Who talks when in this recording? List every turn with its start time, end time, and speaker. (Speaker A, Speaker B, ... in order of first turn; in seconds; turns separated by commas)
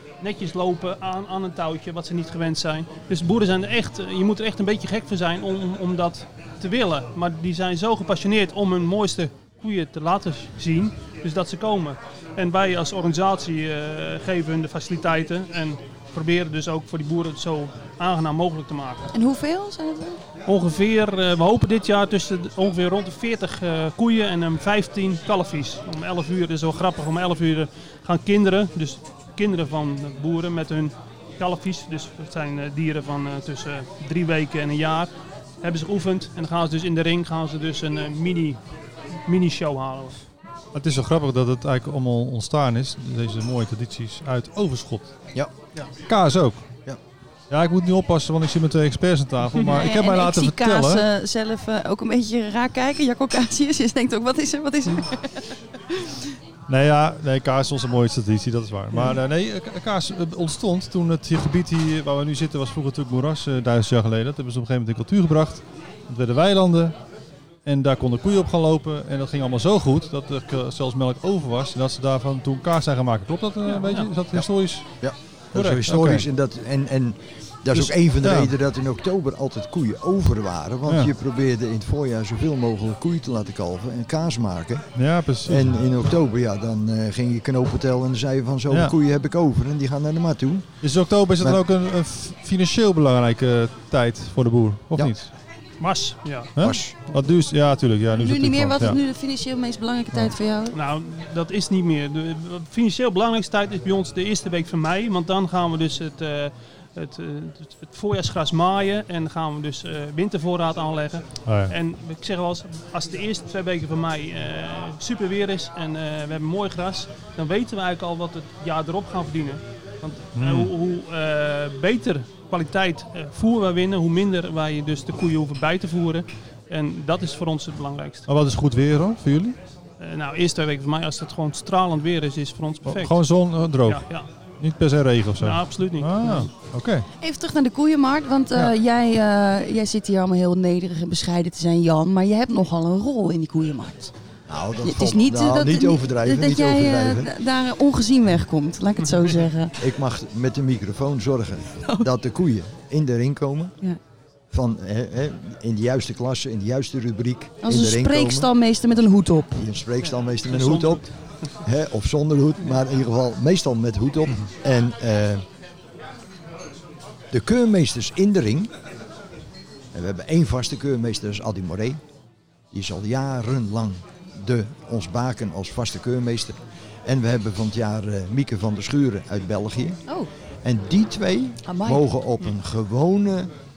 Speaker A: 0.2-19.1, Speaker B: 19.1-20.2, Speaker A: 20.4-38.6, Speaker A: 39.2-40.2, Speaker C: 40.7-45.1, Speaker C: 46.1-46.8, Speaker C: 47.5-51.0, Speaker B: 49.7-56.2, Speaker C: 56.7-66.9, Speaker C: 67.6-76.2, Speaker A: 73.7-74.1, Speaker D: 74.3-90.8, Speaker C: 77.7-78.5, Speaker C: 84.9-85.8, Speaker C: 90.8-95.3, Speaker A: 95.8-96.5, Speaker C: 96.5-99.0, Speaker D: 96.6-96.9, Speaker B: 98.2-100.8, Speaker A: 100.7-128.3, Speaker C: 111.4-111.7, Speaker C: 120.3-120.7, Speaker C: 128.3-129.6, Speaker A: 130.0-133.2, Speaker C: 132.8-137.1, Speaker A: 133.8-134.3, Speaker A: 135.4-136.5, Speaker B: 137.2-144.1, Speaker D: 144.5-147.3, Speaker B: 144.8-149.8, Speaker D: 149.8-153.7, Speaker D: 154.5-158.5, Speaker B: 157.6-159.6, Speaker D: 159.5-165.4, Speaker A: 160.0-161.5, Speaker D: 167.3-168.7, Speaker D: 169.9-172.0, Speaker D: 172.7-180.0, Speaker D: 180.6-183.5, Speaker B: 181.6-182.0